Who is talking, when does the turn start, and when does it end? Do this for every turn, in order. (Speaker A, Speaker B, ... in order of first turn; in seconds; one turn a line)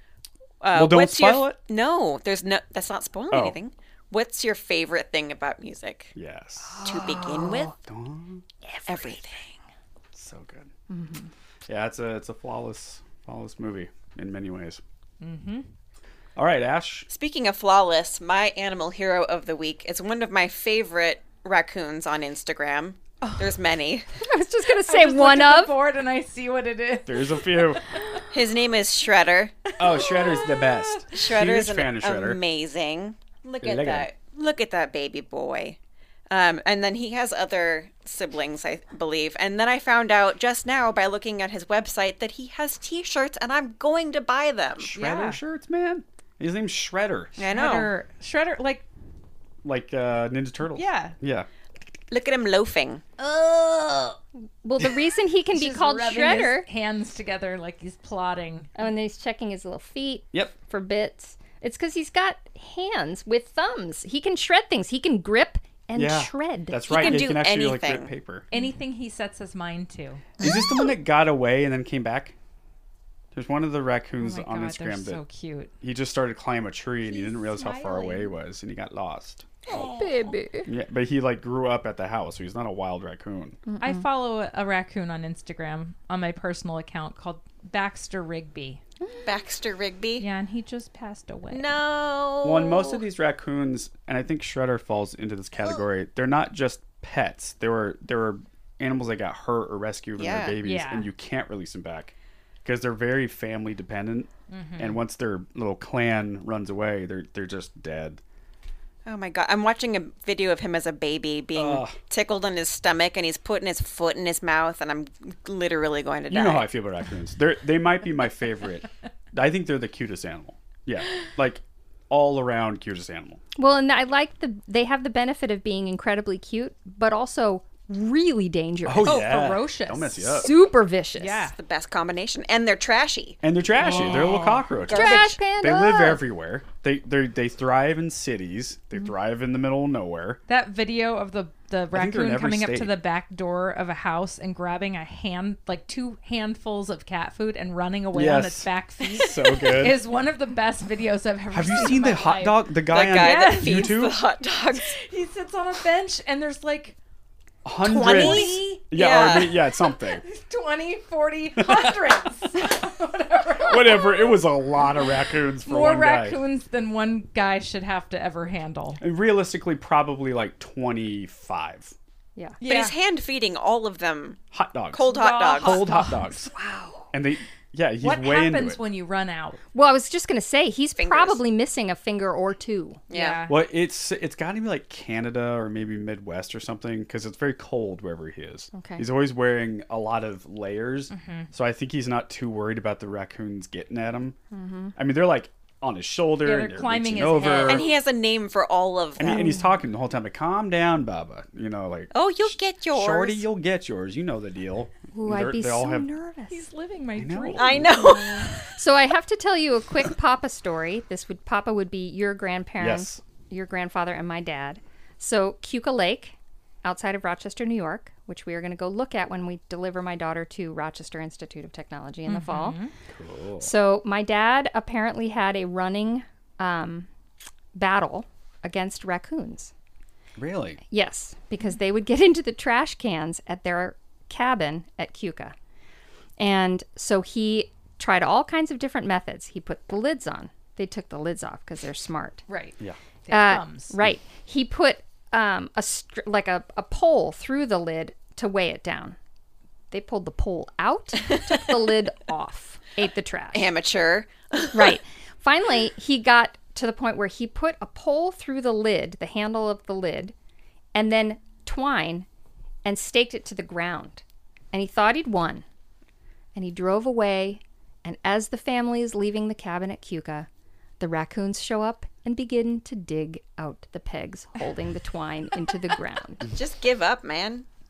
Speaker A: 0.6-6.1
Speaker B: 0.7-1.6
Speaker B: 3.3-3.6
Speaker B: 6.1-6.9
Speaker C: 6.6-7.7
Speaker A: 6.8-7.7
Speaker B: 7.8-8.4
Speaker A: 8.8-9.6
Speaker B: 10.1-10.7
Speaker C: 10.9-11.3
Speaker B: 11.7-14.8
Speaker D: 15.2-15.7
Speaker B: 16.4-17.1
Speaker A: 17.1-24.1
Speaker D: 23.2-23.6
Speaker C: 24.1-25.7
Speaker D: 24.7-28.2
Speaker B: 27.0-27.8
Speaker A: 28.3-29.7
Speaker D: 29.8-31.2
Speaker B: 29.8-32.4
Speaker A: 31.1-35.8
Speaker B: 33.6-34.1
Speaker A: 36.3-44.9
Speaker B: 44.8-47.4
Speaker D: 44.9-45.4
Speaker A: 47.4-47.9
Speaker D: 47.4-48.8
Speaker B: 49.6-51.5
Speaker D: 50.7-51.1
Speaker A: 52.1-53.0
Speaker D: 53.2-54.2
Speaker C: 54.6-56.7
Speaker D: 55.5-58.7
Speaker C: 58.8-67.2
Speaker B: 66.0-68.5
Speaker A: 66.9-68.1
Speaker D: 68.5-70.4
Speaker B: 70.4-72.3
Speaker B: 73.3-75.2
Speaker D: 74.2-75.7
Speaker B: 75.8-79.5
Speaker D: 77.0-78.3
Speaker D: 79.7-80.4
Speaker C: 79.7-80.7
Speaker B: 80.6-83.6
Speaker C: 83.7-84.0
Speaker D: 83.8-88.8
Speaker A: 89.2-90.2
Speaker D: 90.2-91.7
Speaker A: 91.5-93.0
Speaker B: 92.4-108.2
Speaker A: 100.2-100.5
Speaker D: 100.6-101.1
Speaker D: 104.5-105.0
Speaker A: 109.0-116.7
Speaker B: 111.5-112.0
Speaker B: 116.3-123.4
Speaker C: 123.6-129.2
Speaker B: 128.8-130.5
Speaker D: 129.0-130.5
Speaker C: 130.3-131.5
Speaker D: 131.2-131.6
Speaker A: 131.6-133.4
Speaker B: 133.4-140.4
Speaker D: 133.8-134.6
Speaker A: 134.9-135.3
Speaker C: 134.9-136.2
Speaker D: 140.5-154.1
Speaker B: 141.9-142.9
Speaker B: 148.1-150.0
Speaker B: 151.5-154.2
Speaker A: 152.9-154.9
Speaker D: 154.7-156.9
Speaker B: 157.6-160.2
Speaker A: 157.8-159.6
Speaker D: 158.0-158.8
Speaker D: 160.2-164.4
Speaker B: 161.6-162.0
Speaker B: 163.7-166.4
Speaker D: 165.6-169.0
Speaker B: 169.0-171.9
Speaker D: 172.6-172.9
Speaker A: 172.6-174.4
Speaker B: 174.5-176.5
Speaker A: 174.9-175.8
Speaker D: 175.0-176.3
Speaker C: 176.5-177.1
Speaker B: 177.1-178.8
Speaker D: 178.0-179.6
Speaker C: 179.7-183.0
Speaker A: 181.0-181.4
Speaker A: 183.1-183.5
Speaker D: 183.1-183.6
Speaker B: 183.5-194.3
Speaker C: 188.7-189.1
Speaker D: 191.1-191.5
Speaker C: 194.5-194.9
Speaker B: 194.9-197.9
Speaker D: 196.4-197.9
Speaker A: 197.6-199.6
Speaker B: 199.2-206.1
Speaker C: 199.3-199.6
Speaker A: 202.1-203.4
Speaker C: 205.1-206.7
Speaker D: 206.5-208.2
Speaker B: 207.2-208.1
Speaker A: 207.6-208.7
Speaker C: 208.6-222.8
Speaker B: 212.8-213.2
Speaker D: 222.3-222.9
Speaker B: 223.1-223.7
Speaker C: 223.6-227.1
Speaker C: 227.7-229.7
Speaker B: 230.3-230.8
Speaker C: 230.9-235.5
Speaker C: 236.4-242.4
Speaker D: 242.5-243.9
Speaker C: 243.3-249.2
Speaker C: 249.9-253.7
Speaker A: 253.5-254.9
Speaker C: 254.7-260.3
Speaker C: 260.9-262.2
Speaker C: 262.8-265.6
Speaker C: 266.5-270.5
Speaker C: 271.0-276.5
Speaker A: 276.5-277.7